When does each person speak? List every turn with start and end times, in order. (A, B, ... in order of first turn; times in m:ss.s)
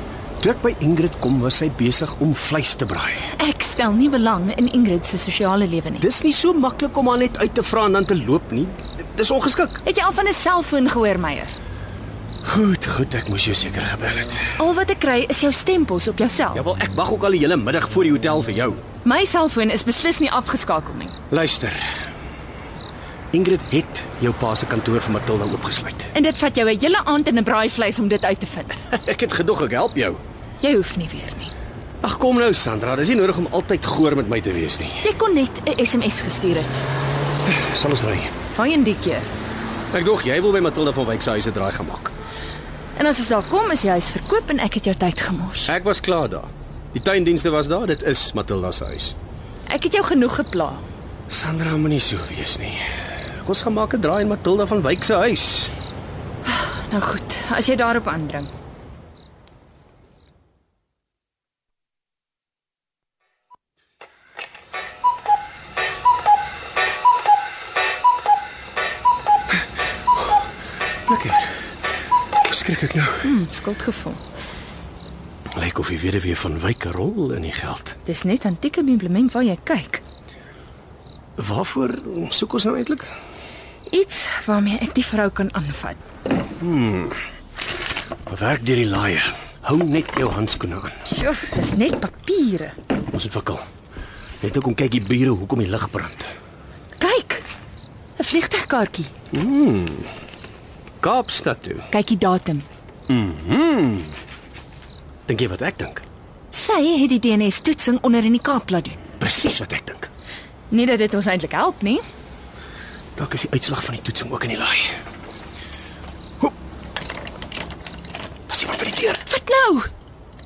0:00.4-0:03.2 A
0:03.3-0:06.1 B
0:06.0-0:09.8 A
0:09.8-0:11.5 B
0:12.4-0:14.4 A
0:14.6-0:16.6 B
0:16.6-0:18.8 A
0:19.0-0:21.1 B
0:21.3-0:21.8 A
0:23.3-0:26.1 A
0:26.1-0:28.8 B
0:29.1-0:30.2 A
0:30.6-0:31.5 B
0:32.0-0:35.0 A
0:35.0-0:36.8 B
0:37.6-0:38.3 A
0:38.5-0:39.3 B
0:39.9-0:42.1 A
0:43.0-0:45.8 B
0:45.7-0:49.2 A
0:49.7-0:50.8 B
0:51.3-0:52.8 A
0:53.4-0:55.7 A
0:56.5-0:58.5 B
1:11.1-1:11.4 A
1:12.5-1:13.2 A
1:13.2-1:14.2 B
1:15.6-1:17.9 A
1:18.0-1:20.0 B
1:21.4-1:23.1 A
1:23.9-1:26.0 B
1:26.6-1:27.2 A
1:28.3-1:31.0 A
1:31.1-1:32.8 B
1:33.1-1:33.6 A
1:34.4-1:36.3 A
1:37.0-1:37.5 B
1:38.2-1:39.1 B
1:39.4-1:40.1 A
1:41.0-1:41.8 A
1:41.9-1:42.7 B
1:43.1-1:44.1 A
1:45.3-1:46.0 A
1:46.5-1:49.0 B
1:49.2-1:50.1 A
1:50.7-1:52.0 B
1:53.2-1:54.9 A
1:58.5-1:59.2 A
1:59.3-1:59.9 B